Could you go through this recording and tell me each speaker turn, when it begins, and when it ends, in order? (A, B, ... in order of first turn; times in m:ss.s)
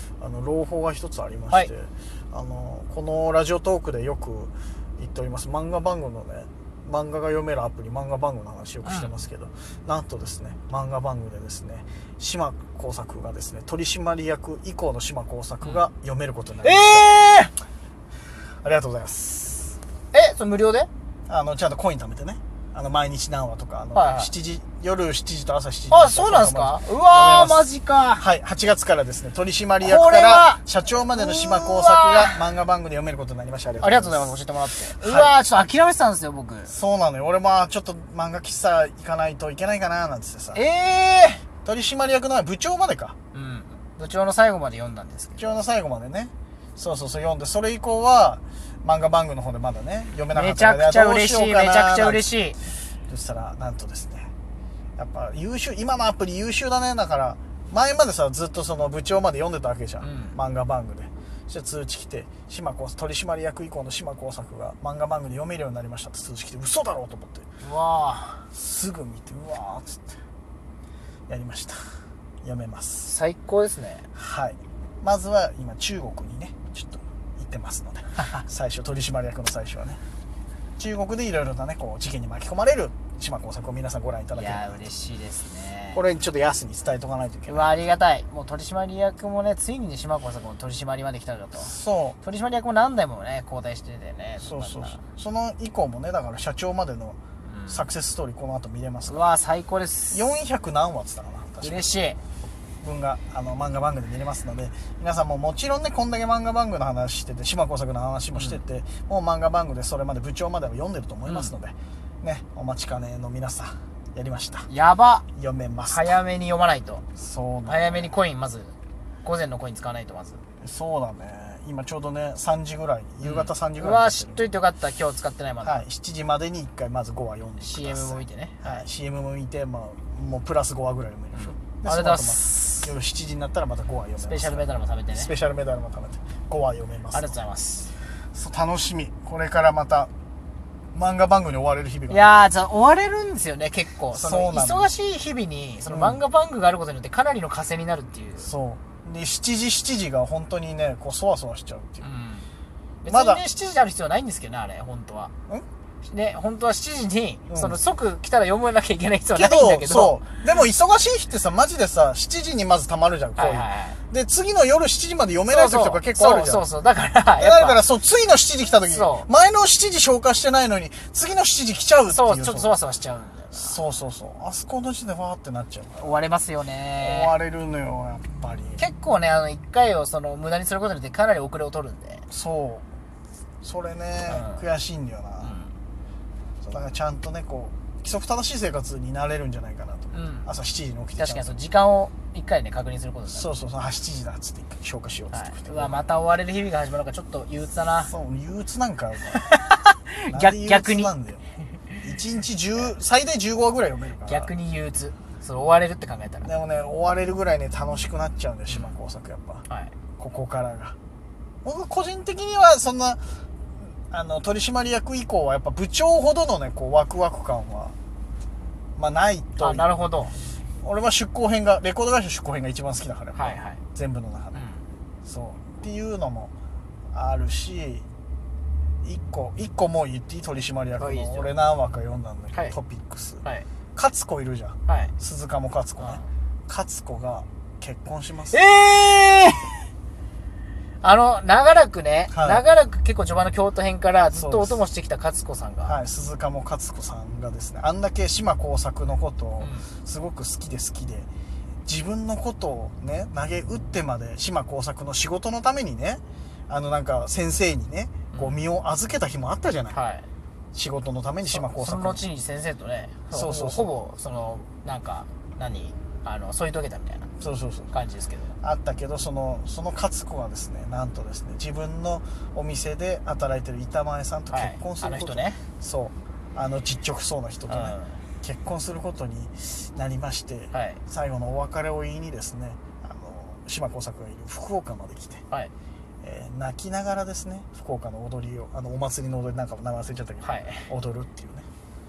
0:00.2-0:17.1 A
0:08.8-0:09.1 B
0:16.6-0:17.5 B
0:18.6-0:19.8 A
0:20.1-0:20.9 B
0:21.3-0:34.3 A
0:23.9-0:24.3 B
0:25.9-0:28.2 B
0:29.8-0:32.4 B
0:33.8-0:36.7 B
0:35.0-0:35.3 A
0:36.7-0:40.6 A
0:40.5-0:41.4 B
0:41.6-0:43.2 A
0:43.3-0:45.5 B
0:45.4-0:52.3 A
0:50.3-0:52.6 B
0:53.1-0:54.3 A
0:55.0-1:07.4 A
1:00.0-1:00.4 B
1:07.6-1:08.4 B
1:08.5-1:10.1 A
1:11.3-1:11.8 A
1:12.4-1:13.1 A
1:13.0-1:14.1 B
1:14.1-1:20.0 A
1:20.8-1:24.8 A
1:24.3-1:26.0 B
1:25.9-1:27.7 A
1:27.5-1:35.0 B
1:31.6-1:32.2 A
1:34.4-1:39.2 A
1:37.4-1:37.9 B
1:39.1-1:40.2 B
1:40.1-1:41.9 A
1:41.6-1:42.2 B
1:42.8-1:54.7 A
1:48.3-1:48.6 B
1:51.2-1:51.5 B
1:54.7-1:55.2 B
1:55.3-1:56.2 A
1:55.9-1:57.0 B
1:57.1-1:58.1 A
1:57.6-2:00.4 B
2:00.6-2:04.5 A
2:03.2-2:05.8 B
2:05.6-2:17.4 A
2:07.6-2:08.8 B
2:11.3-2:12.9 B
2:14.2-2:15.3 B
2:17.1-2:17.9 B
2:18.3-2:20.1 A
2:20.9-2:22.3 A
2:22.1-2:28.5 B
2:24.1-2:24.9 A
2:25.9-2:26.2 A
2:28.4-2:32.1 A
2:32.0-2:32.5 B
2:33.0-2:35.3 B
2:33.1-2:33.4 A
2:36.0-2:40.3 B
2:37.5-2:37.8 A
2:39.3-2:46.7 A
2:43.3-2:44.0 B
2:45.4-2:47.8 B
2:47.4-2:52.7 A
2:48.9-2:49.3 B
2:52.1-2:53.8 B
2:53.5-2:56.2 A
2:56.0-2:57.3 B
2:57.0-2:58.8 A
2:58.8-3:02.2 B
3:02.3-3:02.8 A
3:03.6-3:05.6 A
3:04.3-3:04.6 B
3:05.4-3:05.7 B
3:06.6-3:11.4 A
3:10.1-3:10.5 B
3:11.2-3:13.5 B
3:13.3-3:16.0 A
3:15.3-3:18.1 B
3:18.0-3:19.5 A
3:19.3-3:21.1 B
3:20.3-3:21.4 A
3:22.0-3:24.5 A
3:24.3-3:26.5 B
3:26.4-3:29.6 A
3:28.7-3:28.9 B
3:29.7-3:29.9 B
3:30.2-3:31.0 A
3:31.6-3:33.2 A
3:34.1-3:37.9 A
3:39.0-3:39.9 A
3:39.6-3:40.3 B
3:40.8-3:44.6 A
3:43.4-3:43.8 B
3:44.5-3:44.8 B
3:45.2-3:46.5 A
3:47.1-3:48.0 A
3:49.0-3:53.4 A
3:51.0-3:51.5 B
3:53.9-3:58.6 A
3:54.8-3:55.1 B
3:56.0-3:56.2 B
3:58.5-3:59.9 B
4:01.0-4:05.9 B
4:02.3-4:02.6 A
4:04.3-4:04.8 A
4:05.8-4:11.3 A
4:09.6-4:09.9 B
4:11.8-4:20.0 A
4:18.3-4:18.6 B
4:19.9-4:20.3 B
4:20.7-4:22.2 A
4:21.4-4:27.3 B
4:23.3-4:23.9 A
4:27.4-4:27.9 A
4:27.9-4:28.6 B
4:28.6-4:45.4 A
4:34.5-4:35.6 B
4:37.7-4:38.2 B
4:40.7-4:41.0 B
4:46.2-4:51.7 A
4:50.4-4:50.9 B